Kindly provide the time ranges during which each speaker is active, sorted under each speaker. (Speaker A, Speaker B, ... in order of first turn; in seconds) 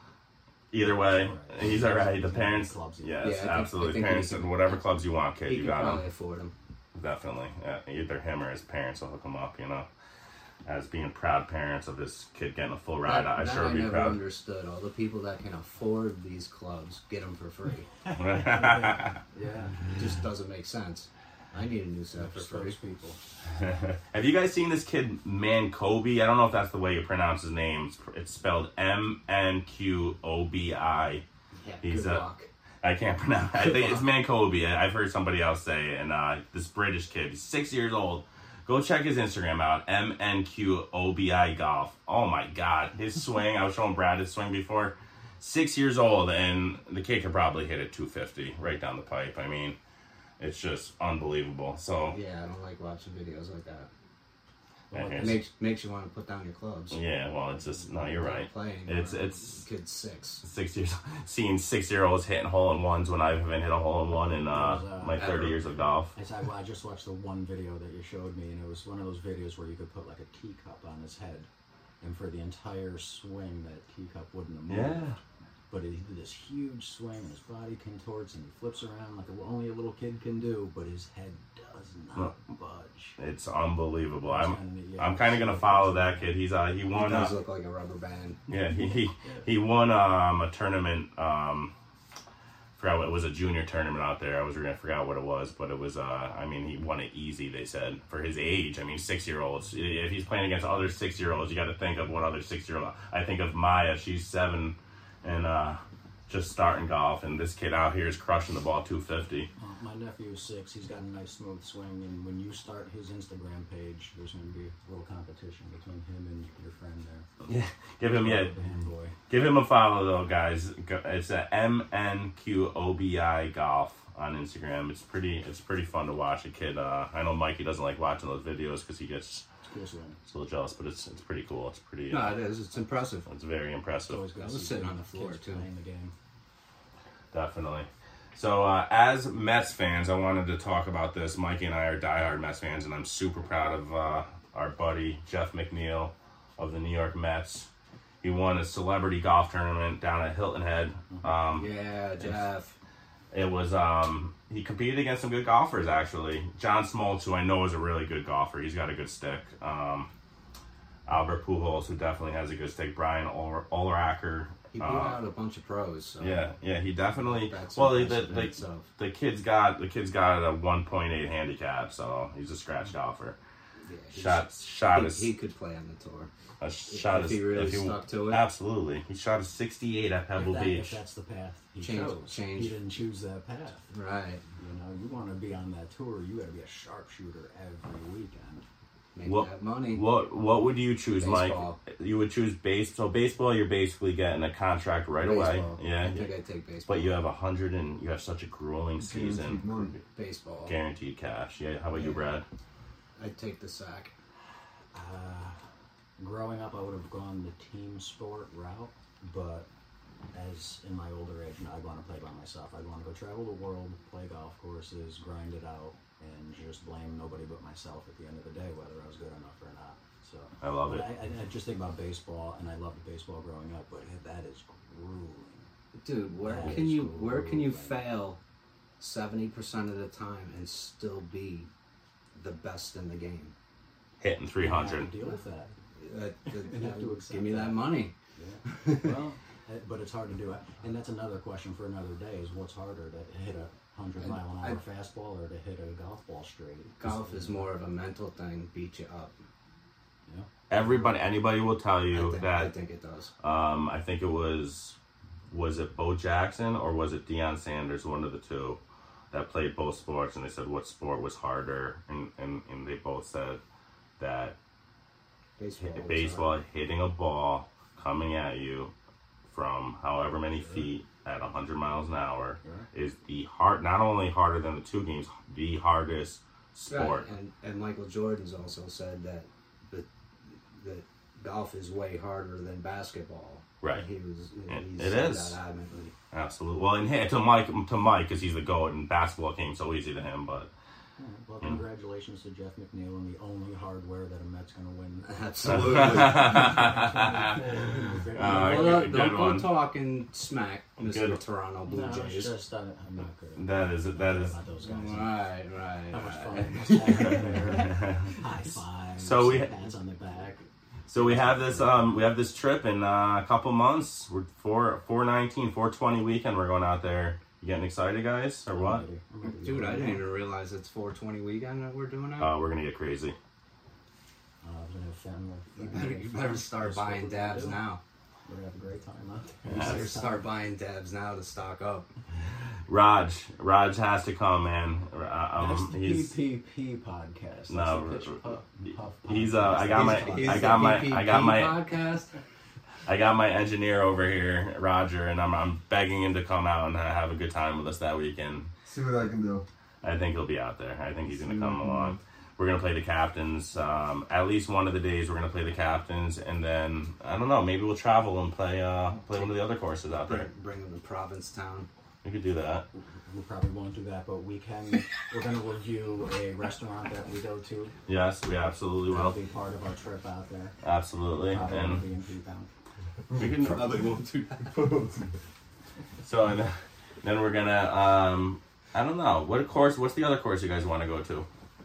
Speaker A: 0.7-6.0, 6.9-9.9, 10.7-14.2, 18.1-19.2, 23.5-31.2, 31.8-32.2, 32.8-49.8, 50.4-52.2, 54.9-55.4, 56.9-59.6, 60.4-66.1, 74.7-75.2, 83.2-87.3, 88.5-91.7, 92.8-109.5, 117.4-118.5, 119.3-129.4, 130.3-132.4, 133.2-134.2, 137.3-147.7, 148.2-152.5, 153.3-160.1, 161.1-165.2, 166.2-173.4, 174.1-175.3, 176.6-181.0, 189.2-196.3, 196.8-200.0, 200.7-202.4, 220.6-221.2, 234.2-235.1, 250.7-252.7, 253.4-254.9, 255.5-258.8, 259.3-263.6, 264.2-264.6, 265.8-268.9, 269.5-277.2, 284.7-285.6, 286.3-290.7, 295.7-297.6, 298.3-299.7, 301.0-301.4, 303.6-304.6, 307.7-308.4, 309.2-309.7, 311.1-319.1, 322.4-323.4, 329.7-329.9, 332.9-336.4, 337.7-341.8, 343.1-348.7, 350.0-360.5, 362.2-362.8, 368.1-369.4, 370.8-372.0, 373.4-373.8, 376.2-381.5
Speaker B: 0.8-3.4, 18.1-19.9, 22.1-23.2, 54.9-55.4, 64.5-65.4, 66.1-71.5, 72.0-75.1, 75.7-83.2, 84.3-86.4, 89.2-89.5, 109.6-117.3, 118.2-119.1, 129.6-130.2, 134.0-136.1, 180.3-183.9, 184.6-188.6, 204.9-205.6, 206.2-209.7, 210.3-225.7, 226.4-228.1, 234.6-235.8, 236.5-247.7, 291.2-299.2, 301.8-305.4, 306.1-310.6, 311.1-312.2, 318.7-320.2, 324.6-327.8, 328.4-330.5, 335.6-341.0, 362.9-367.9, 369.1-370.8, 371.5-372.7
Speaker C: 3.2-4.8, 5.5-6.5, 13.0-17.9, 19.9-22.8, 31.6-32.5, 33.5-34.0, 52.1-53.9, 55.1-57.0, 58.0-60.4, 65.2-65.6, 86.9-88.4, 132.1-133.3, 134.4-135.7, 151.5-152.7, 164.7-166.5, 167.2-168.9, 173.8-176.3, 176.9-178.4, 181.8-182.8, 183.9-184.4, 189.1-190.0, 191.2-191.8, 196.0-197.2, 200.1-200.8, 201.9-202.3, 203.2-204.1, 225.9-228.4, 229.0-231.7, 232.3-233.5, 235.9-238.1, 238.7-239.1, 244.2-244.8, 247.0-249.3, 252.1-253.3, 265.6-266.5, 276.9-286.1, 295.2-297.1, 298.4-302.5, 304.8-307.9, 319.4-322.5, 325.7-328.0, 329.7-332.1, 339.9-342.3, 360.2-361.9, 373.6-375.0
Speaker D: 195.2-195.8, 199.0-199.9, 348.8-349.6, 373.3-374.0, 374.7-375.3